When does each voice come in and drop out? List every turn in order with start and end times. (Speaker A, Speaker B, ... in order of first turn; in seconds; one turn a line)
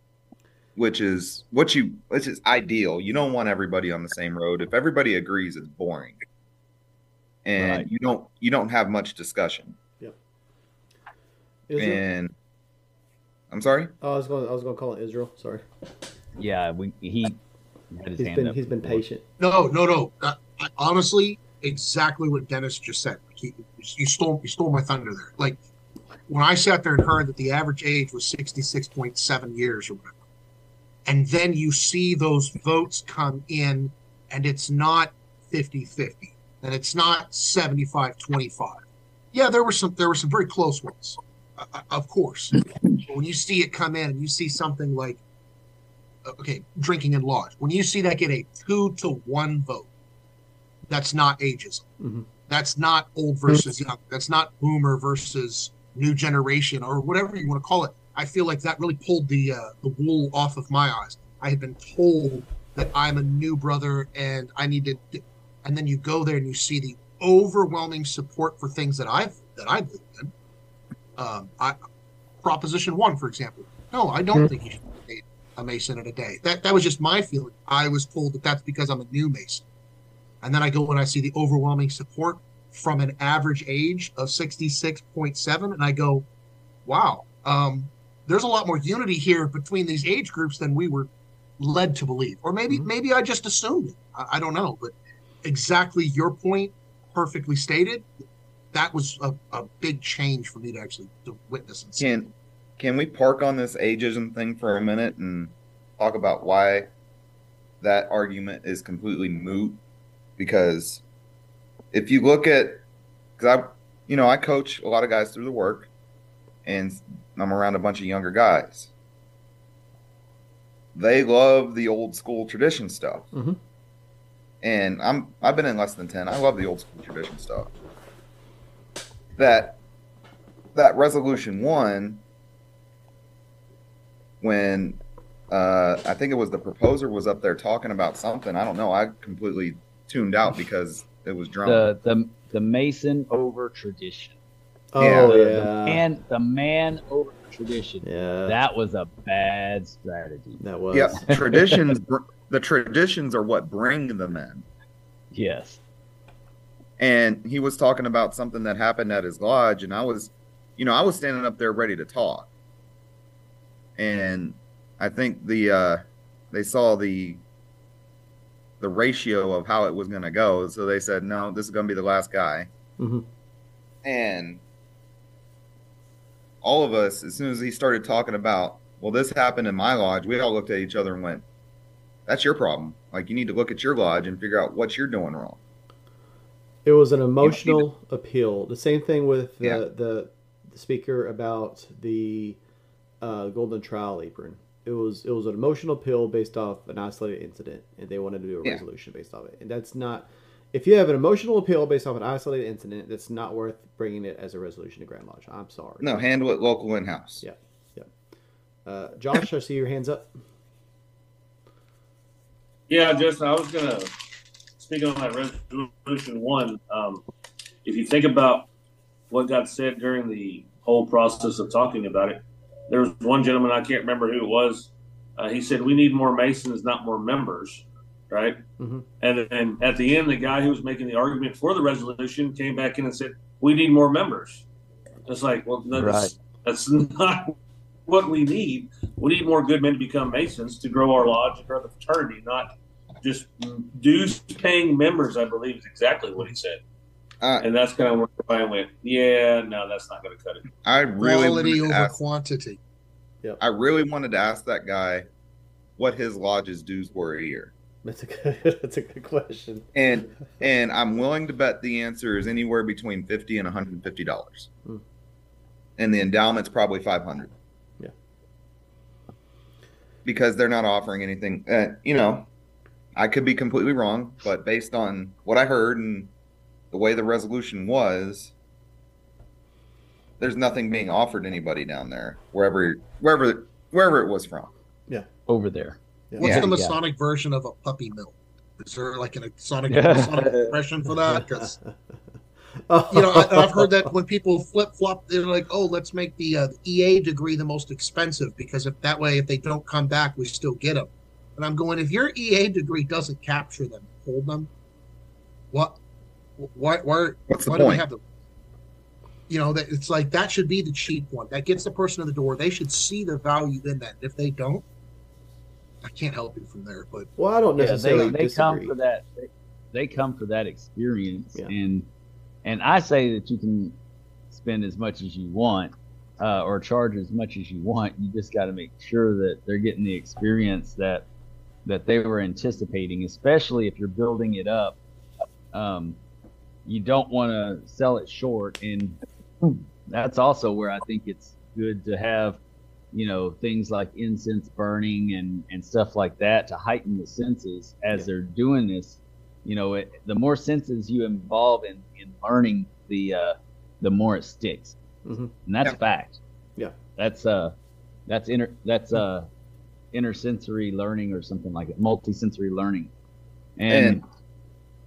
Speaker A: 0.8-6.2
Speaker A: 7.5-9.8
Speaker B: 7.6-7.9
Speaker C: 11.7-12.0
Speaker A: 11.8-12.3
Speaker A: 13.5-13.9
Speaker C: 14.0-15.7
Speaker B: 16.4-17.4
Speaker B: 17.9-19.0
Speaker C: 18.2-19.2
Speaker D: 19.4-25.6
Speaker D: 26.3-30.2
Speaker D: 31.1-38.8
Speaker D: 39.3-45.2
Speaker D: 46.3-49.9
Speaker D: 50.9-51.9
Speaker C: 52.0-52.3
Speaker D: 52.5-70.3
Speaker D: 71.2-71.8
Speaker D: 72.4-79.6
Speaker D: 80.4-86.3
Speaker D: 86.9-98.1
Speaker D: 98.7-102.2
Speaker A: 102.0-106.9
Speaker A: 107.8-109.8
Speaker A: 110.4-111.0
Speaker A: 111.9-112.8
Speaker A: 113.4-115.9
Speaker A: 116.7-118.9
Speaker A: 121.0-123.3
Speaker C: 123.3-123.6
Speaker A: 124.6-127.7
Speaker A: 129.3-129.8
Speaker A: 130.7-132.2
Speaker A: 134.4-141.9
Speaker B: 141.7-144.4
Speaker C: 144.9-146.1
Speaker A: 145.0-145.3
Speaker B: 145.3-150.6
Speaker C: 148.0-148.6
Speaker C: 150.6-151.4
Speaker A: 150.9-154.7
Speaker B: 155.3-155.8
Speaker A: 157.0-162.5
Speaker A: 164.0-167.4
Speaker A: 168.8-172.7
Speaker C: 173.0-173.3
Speaker A: 174.0-174.6
Speaker A: 176.6-181.4
Speaker A: 182.3-185.6
Speaker C: 186.8-192.6
Speaker A: 187.4-187.8
Speaker C: 193.2-206.2
Speaker A: 206.0-207.4
Speaker C: 207.4-208.1
Speaker C: 208.9-210.4
Speaker E: 212.9-214.1
Speaker E: 214.8-217.2
Speaker E: 217.8-218.7
Speaker E: 219.3-228.6
Speaker C: 228.8-229.1
Speaker E: 229.2-234.7
Speaker E: 235.3-237.6
Speaker C: 236.0-236.3
Speaker E: 238.1-246.8
Speaker A: 247.4-247.7
Speaker E: 247.6-250.7
Speaker A: 250.8-252.2
Speaker D: 251.2-252.8
Speaker A: 253.6-255.3
Speaker A: 256.0-257.7
Speaker C: 258.0-259.9
Speaker A: 259.9-264.7
Speaker A: 266.0-267.5
Speaker A: 270.2-272.5
Speaker A: 273.1-276.3
Speaker A: 276.9-278.5
Speaker A: 280.4-284.7
Speaker B: 285.5-287.0
Speaker C: 286.3-286.6
Speaker D: 286.4-291.8
Speaker A: 286.4-286.7
Speaker B: 289.9-290.8
Speaker C: 291.3-291.9
Speaker C: 292.9-294.1
Speaker D: 293.1-304.7
Speaker D: 305.7-306.0
Speaker D: 306.6-308.2
Speaker A: 307.5-308.1
Speaker D: 309.5-314.9
Speaker D: 316.0-317.3
Speaker C: 317.4-318.9
Speaker B: 317.8-322.1
Speaker B: 322.6-324.0
Speaker B: 324.5-331.3
Speaker B: 331.9-335.0
Speaker B: 335.7-336.2
Speaker B: 336.9-342.6
Speaker B: 343.1-355.0
Speaker C: 355.2-355.5
Speaker B: 355.6-356.4
Speaker B: 357.2-357.8
Speaker B: 358.3-359.5
Speaker B: 360.1-363.1
Speaker B: 363.8-364.2
Speaker A: 363.9-364.2